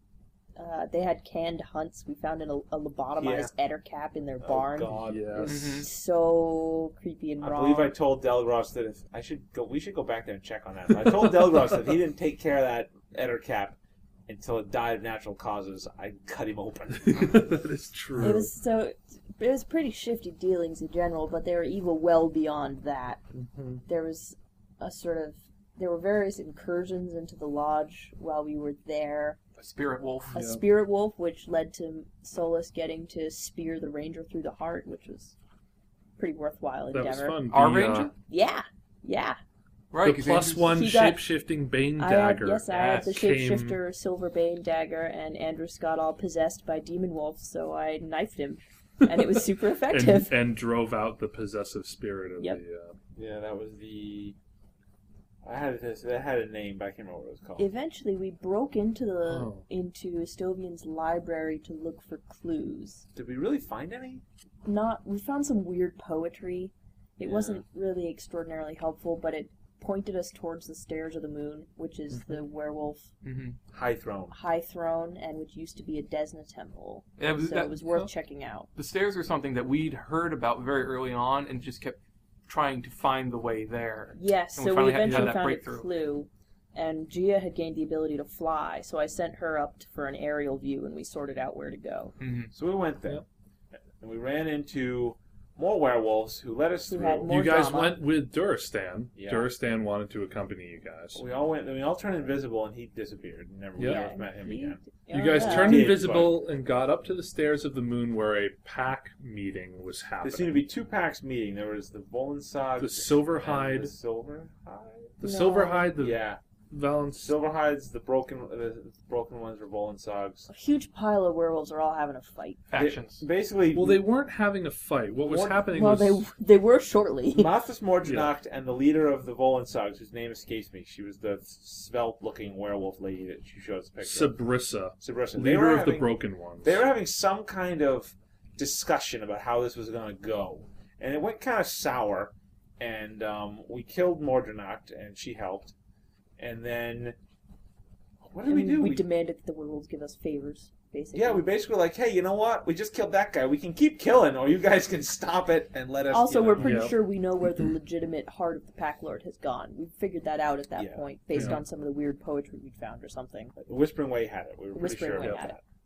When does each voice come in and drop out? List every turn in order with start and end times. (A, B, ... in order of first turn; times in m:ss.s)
0:00.6-0:07.9 A
0:03.2-0:03.5 B
0:04.4-0:05.5 B
0:04.9-0:05.6 C
0:05.4-0:05.9 D
0:07.4-0:17.5 B
0:17.0-0:18.5 C
0:18.2-0:23.2 A
0:23.3-0:23.8 C
0:23.9-0:29.4 A
0:29.6-0:30.4 D
0:30.3-0:30.6 C
0:30.3-0:35.3 A
0:36.2-0:37.4 A
0:36.9-0:38.1 C
0:37.5-0:38.1 D
0:38.3-0:39.4 A
0:39.9-0:40.7 D
0:40.0-0:43.8 C
0:40.6-0:41.3 A
0:42.0-0:50.3 A
0:42.7-0:43.2 D
0:49.9-0:52.9 C
0:53.2-0:54.4 B
0:55.4-0:57.7 B
0:57.6-1:03.0 A
0:59.3-0:59.6 C
1:03.1-1:04.2 B
1:04.6-1:13.1 A
1:07.2-1:07.6 B
1:13.2-1:13.6 D
1:13.7-1:14.3 B
1:14.3-1:18.7 A
1:17.2-1:17.8 D
1:18.8-1:25.9 D
1:24.1-1:32.1 A
1:25.0-1:25.4 C
1:32.2-1:32.5 D
1:32.5-1:33.2 B
1:34.0-1:37.3 B
1:36.9-1:38.0 A
1:37.2-1:41.2 C
1:39.2-1:39.5 B
1:41.1-1:46.4 B
1:43.8-1:44.0 C
1:43.8-1:46.0 A
1:45.1-1:50.6 C
1:50.2-1:55.2 B
1:52.8-1:53.9 C
1:55.2-1:56.2 C
1:55.2-1:56.0 A
1:55.9-1:56.4 B
1:56.7-1:57.3 C
1:57.1-2:00.5 B
2:00.5-2:02.6 A
2:02.7-2:03.2 D
2:02.7-2:04.0 B
2:03.7-2:06.2 C
2:05.2-2:05.7 B
2:05.6-2:07.5 A
2:07.3-2:14.4 B
2:08.0-2:08.3 C
2:14.0-2:16.8 C
2:15.0-2:25.7 B
2:26.4-2:27.2 B
2:28.2-2:29.0 B
2:28.4-2:31.4 A
2:31.1-2:36.9 B
2:36.1-2:43.5 A
2:36.6-2:37.0 C
2:40.8-2:41.5 B
2:41.3-2:41.6 C
2:43.6-2:45.6 B
2:44.7-2:45.6 A
2:45.2-2:45.4 C